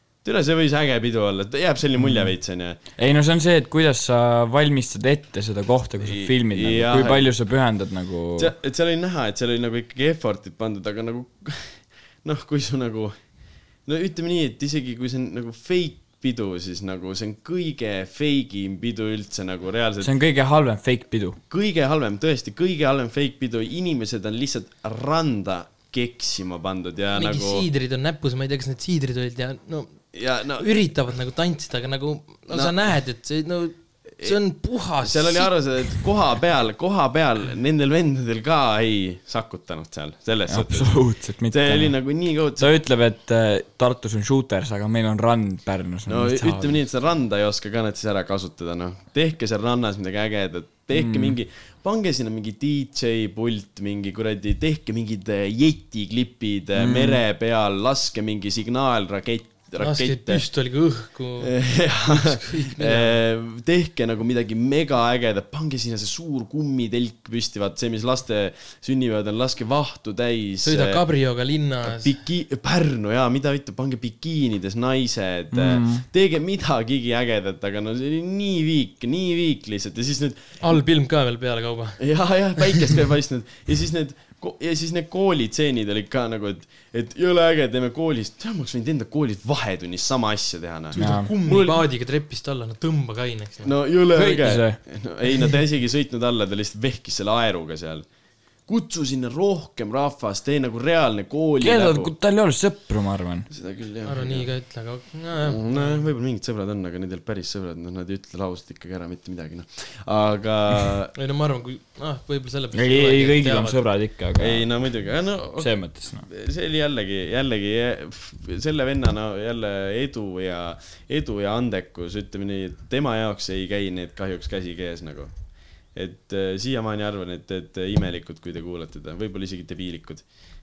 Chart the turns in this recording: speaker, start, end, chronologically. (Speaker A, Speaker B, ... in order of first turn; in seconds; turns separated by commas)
Speaker A: 0.2-2.8, Speaker B: 2.0-2.3, Speaker B: 3.0-8.5, Speaker A: 6.0-7.3, Speaker A: 8.4-13.2, Speaker A: 13.8-20.1, Speaker B: 20.0-21.4, Speaker A: 21.5-27.6, Speaker C: 27.1-36.0, Speaker A: 30.1-30.7, Speaker A: 32.5-32.8, Speaker A: 35.0-42.8, Speaker B: 40.5-42.0, Speaker B: 42.6-46.8, Speaker A: 46.1-60.4, Speaker B: 50.9-51.4, Speaker B: 56.8-57.2, Speaker C: 59.8-63.2, Speaker A: 61.4-71.0, Speaker C: 70.6-72.2, Speaker A: 71.8-80.6, Speaker B: 75.5-76.0, Speaker C: 80.6-82.0, Speaker A: 82.0-91.8, Speaker C: 82.6-82.8, Speaker C: 91.0-93.7, Speaker B: 91.0-91.3, Speaker A: 93.6-98.1, Speaker B: 94.1-94.8, Speaker A: 98.7-102.1, Speaker B: 101.6-103.5, Speaker A: 103.5-104.5, Speaker C: 104.0-106.0, Speaker A: 105.4-111.1, Speaker C: 111.2-113.8, Speaker B: 112.7-114.7, Speaker A: 114.4-125.3, Speaker B: 115.6-116.3, Speaker A: 125.9-130.2